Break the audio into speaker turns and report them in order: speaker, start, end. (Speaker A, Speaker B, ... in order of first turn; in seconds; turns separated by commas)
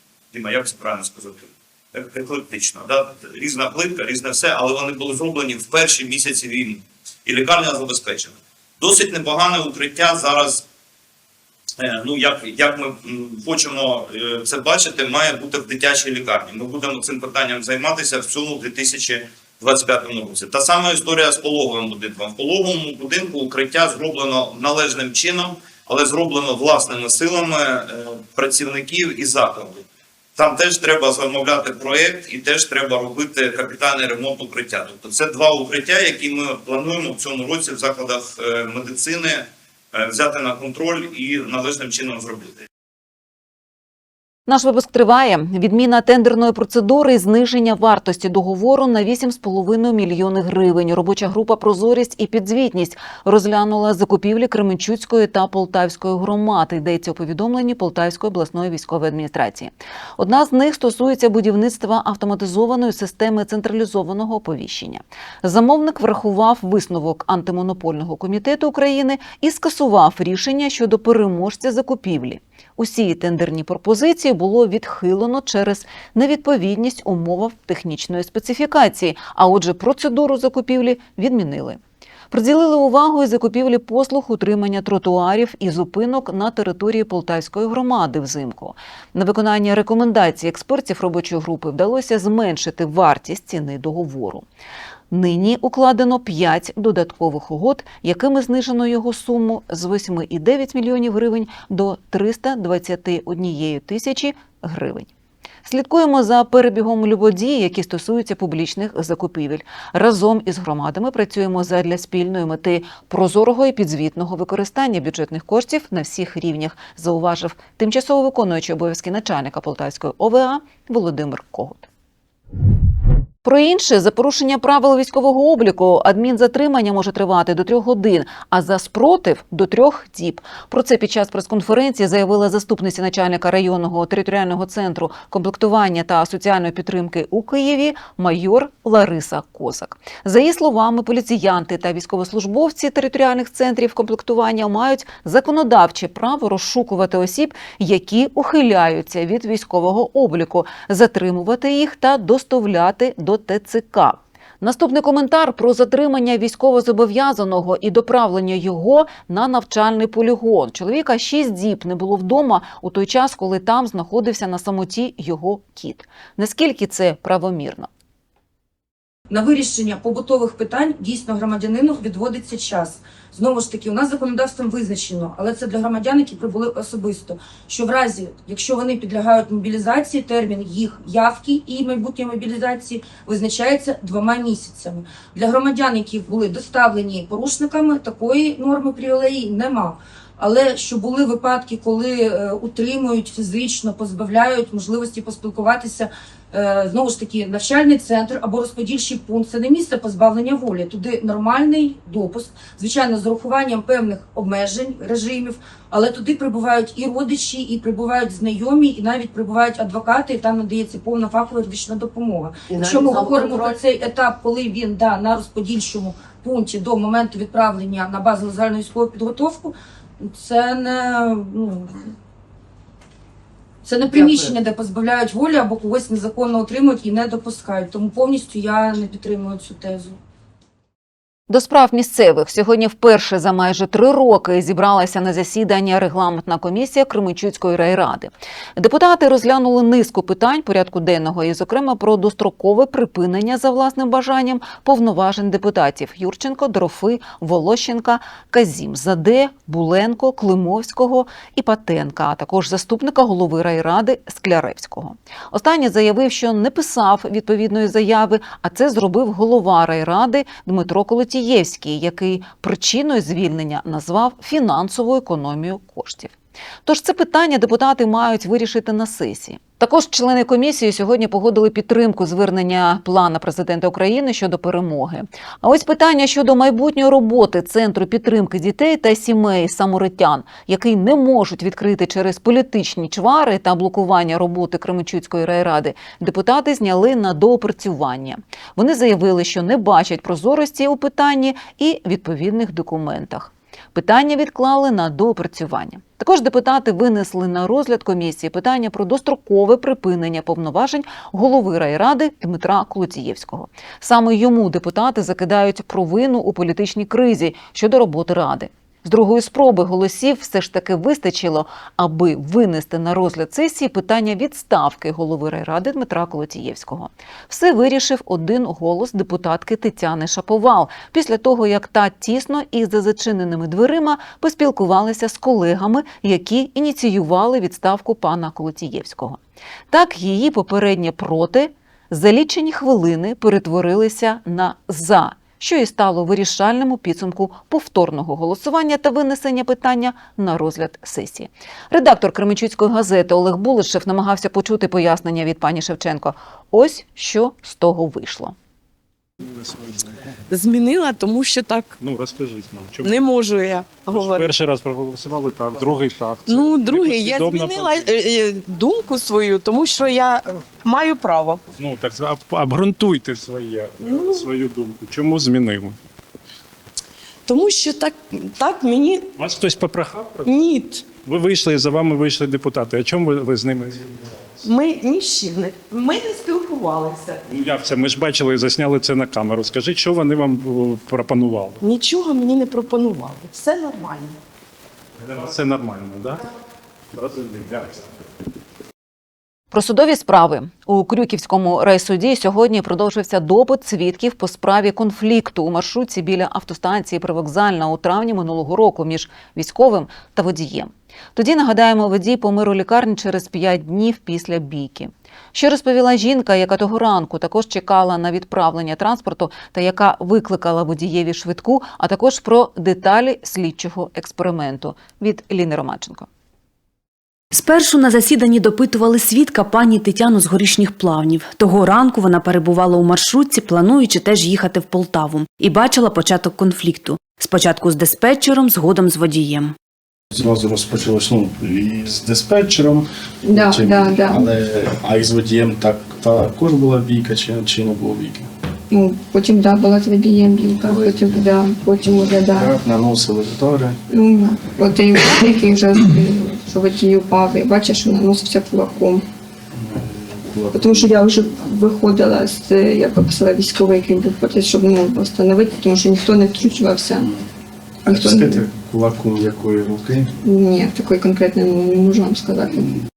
Speaker A: 0.3-10.6, Speaker A: 11.8-29.8, Speaker A: 30.4-42.6, Speaker B: 44.5-81.8, Speaker B: 82.3-94.4, Speaker B: 95.1-105.1, Speaker B: 105.6-121.9, Speaker B: 123.4-167.9, Speaker C: 169.3-222.1, Speaker C: 223.8-230.2, Speaker B: 231.5-348.5, Speaker D: 350.5-351.9, Speaker E: 352.0-353.1, Speaker D: 353.0-354.6, Speaker E: 354.3-357.8, Speaker D: 356.4-361.6, Speaker E: 361.8-365.9, Speaker D: 364.0-364.5, Speaker D: 367.4-369.3, Speaker E: 369.4-370.4, Speaker D: 370.4-371.1, Speaker E: 371.3-374.0, Speaker D: 374.6-377.4, Speaker E: 377.5-381.8, Speaker D: 381.8-384.4, Speaker E: 385.4-386.4, Speaker B: 389.7-416.3, Speaker F: 417.5-429.7, Speaker G: 430.3-438.5, Speaker H: 433.4-434.4, Speaker H: 438.9-442.7, Speaker G: 440.8-441.4, Speaker G: 442.5-444.0, Speaker H: 444.1-449.2, Speaker G: 449.8-451.1, Speaker H: 450.7-457.3, Speaker G: 458.1-460.3, Speaker H: 458.1-458.6, Speaker H: 460.4-462.9